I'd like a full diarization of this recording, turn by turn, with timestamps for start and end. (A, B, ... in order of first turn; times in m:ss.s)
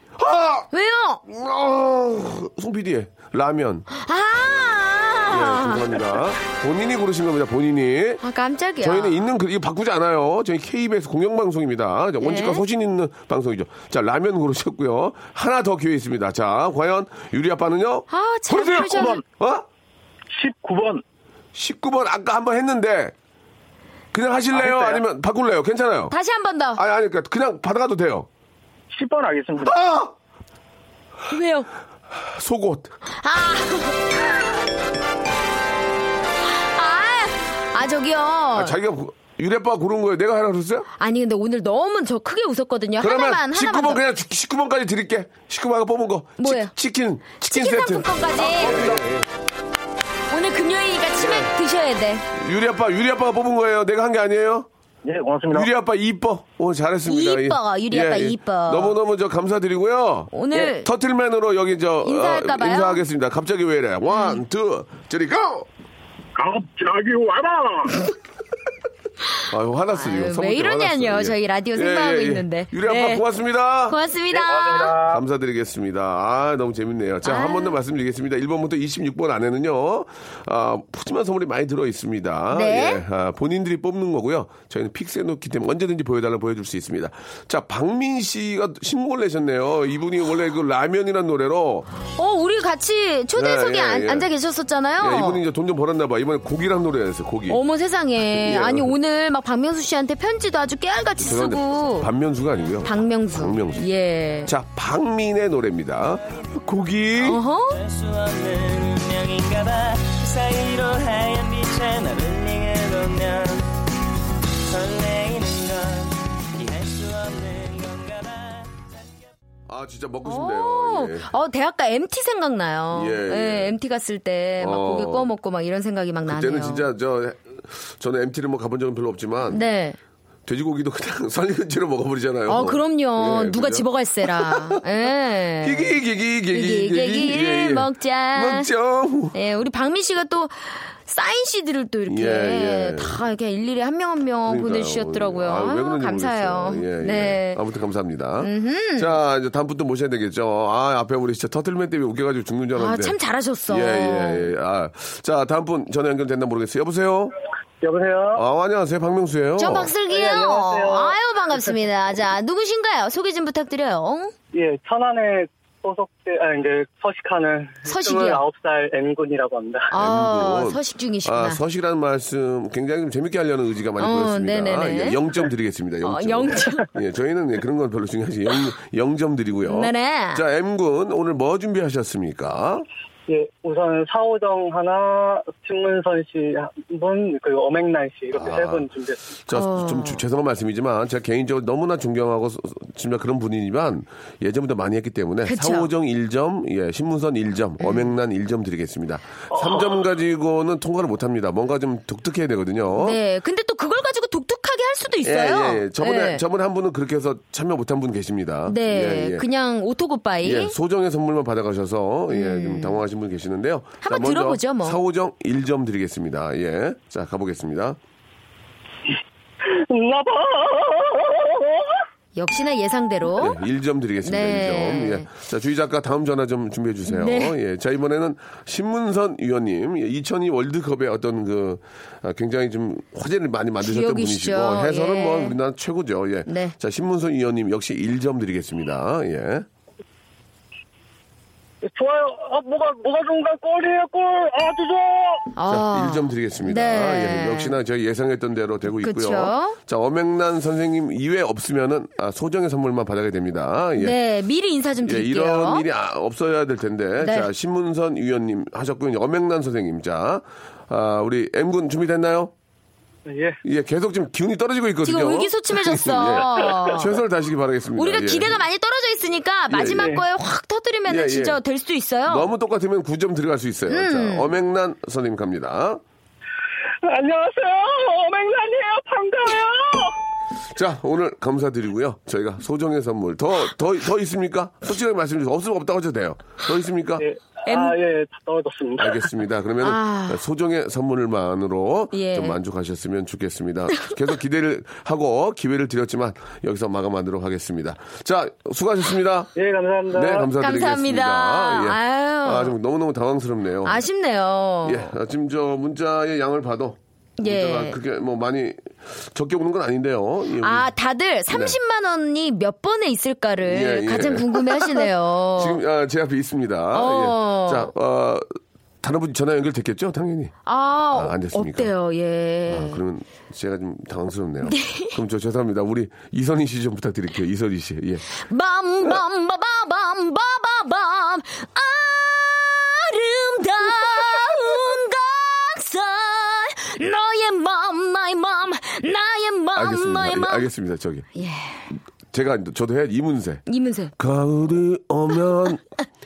0:00.2-0:00.7 A
0:00.7-0:01.2 B
0:01.3-0:03.9 A
0:03.9-0:05.9 B
0:05.3-0:08.2 A
0:08.2-0:09.2 B
0:08.8-0:19.7 A
0:12.2-0:12.6 B
0:18.1-0:19.2 B
0:18.8-0:19.2 C
0:20.3-0:21.0 C
0:21.5-0:23.2 A
0:24.1-0:26.2 A
0:24.6-0:25.0 C
0:26.1-0:26.8 B
0:26.8-0:28.3 A
0:28.9-0:29.8 C
0:29.6-0:30.1 A
0:31.3-0:31.7 B
0:32.1-0:32.9 A
0:33.1-0:34.6 B
0:36.5-0:38.8 B
0:38.6-0:40.9 A
0:41.0-0:44.0 B
0:43.0-0:49.3 A
0:46.4-0:46.7 B
0:47.4-0:49.0 B
0:50.3-0:52.2 B
0:51.2-0:51.5 A
0:52.3-0:54.7 A
0:55.0-0:55.7 C
0:55.5-1:05.7 A
0:57.1-0:59.0 B
1:00.3-1:00.9 B
1:02.0-1:03.0 B
1:04.1-1:04.4 B
1:06.4-1:08.0 C
1:09.5-1:14.0 A
1:09.9-1:13.2 B
1:13.9-1:15.0 B
1:14.3-1:15.2 C
1:15.0-1:31.9 A
1:17.2-1:17.8 B
1:22.5-1:23.0 B
1:32.2-1:35.4 B
1:33.4-1:34.3 A
1:35.0-1:37.6 A
1:37.5-1:42.1 B
1:38.2-1:38.9 A
1:41.2-1:43.9 A
1:42.8-1:44.5 B
1:44.5-1:47.4 A
1:47.2-1:47.8 B
1:47.9-1:53.6 D
1:54.8-1:56.1 D
1:56.7-1:57.7 D
1:59.7-2:01.3 A
2:00.2-2:06.9 B
2:02.9-2:03.8 A
2:04.6-2:05.3 A
2:06.3-2:09.6 A
2:09.5-2:10.0 B
2:10.5-2:14.8 A
2:12.5-2:16.0 B
2:15.6-2:19.4 A
2:16.5-2:18.7 B
2:19.3-2:27.6 B
2:22.1-2:23.2 A
2:24.5-2:33.2 A
2:28.4-2:29.2 B
2:32.8-2:34.5 B
2:33.7-2:37.3 A
2:37.8-2:38.4 C
2:38.3-2:39.9 A
2:39.6-2:44.3 B
2:40.1-2:41.2 C
2:44.5-2:49.9 C
2:47.8-2:48.4 B
2:49.9-2:51.6 B
2:49.9-3:02.8 A
2:54.0-2:55.2 B
2:56.0-2:56.9 B
2:59.6-3:00.4 B
3:03.3-3:09.2 C
3:08.3-3:23.2 A
3:09.5-3:10.2 B
3:15.4-3:15.9 B
3:23.0-3:26.4 B
3:25.2-3:29.5 A
3:28.7-3:30.8 B
3:30.4-3:38.0 A
3:32.3-3:33.0 B
3:34.0-3:35.0 B
3:39.6-3:42.0 C
3:42.4-3:43.6 B
3:43.4-3:59.7 A
3:44.2-3:45.3 B
3:47.1-3:47.6 B
3:53.8-3:55.6 B
3:56.5-3:56.7 B
4:01.8-4:05.5 C
4:05.6-4:07.8 B
4:05.7-4:14.2 A
4:08.9-4:09.8 B
4:14.0-4:15.9 B
4:15.0-4:22.5 A
4:17.2-4:17.5 B
4:23.3-4:23.6 C
4:23.6-4:28.6 A
4:25.0-4:27.2 B
4:28.0-4:32.5 B
4:29.7-4:30.2 A
4:31.1-4:31.6 A
4:32.3-4:36.0 A
4:33.9-4:34.5 B
4:37.0-4:40.2 C
4:40.7-4:47.3 A
4:47.2-4:49.2 C
4:47.7-4:48.0 B
4:49.0-4:59.5 A
4:49.8-4:50.4 B
4:52.1-4:52.6 B
4:59.6-5:00.5 C
5:00.1-5:04.0 A
5:00.6-5:02.7 B
5:03.8-5:05.1 B
5:04.8-5:10.9 A
5:07.4-5:08.0 B
5:10.6-5:15.8 B
5:11.5-5:11.8 A
5:13.7-5:18.4 A
5:16.9-5:17.9 B
5:19.0-5:20.5 A
5:20.7-5:23.0 B
5:21.2-5:21.9 A
5:22.7-5:28.3 A
5:24.6-5:25.2 B
5:28.3-5:40.7 B
5:39.8-5:41.3 A
5:41.4-5:41.9 B
5:42.3-5:43.6 A
5:43.7-5:44.1 B
5:44.2-5:45.8 A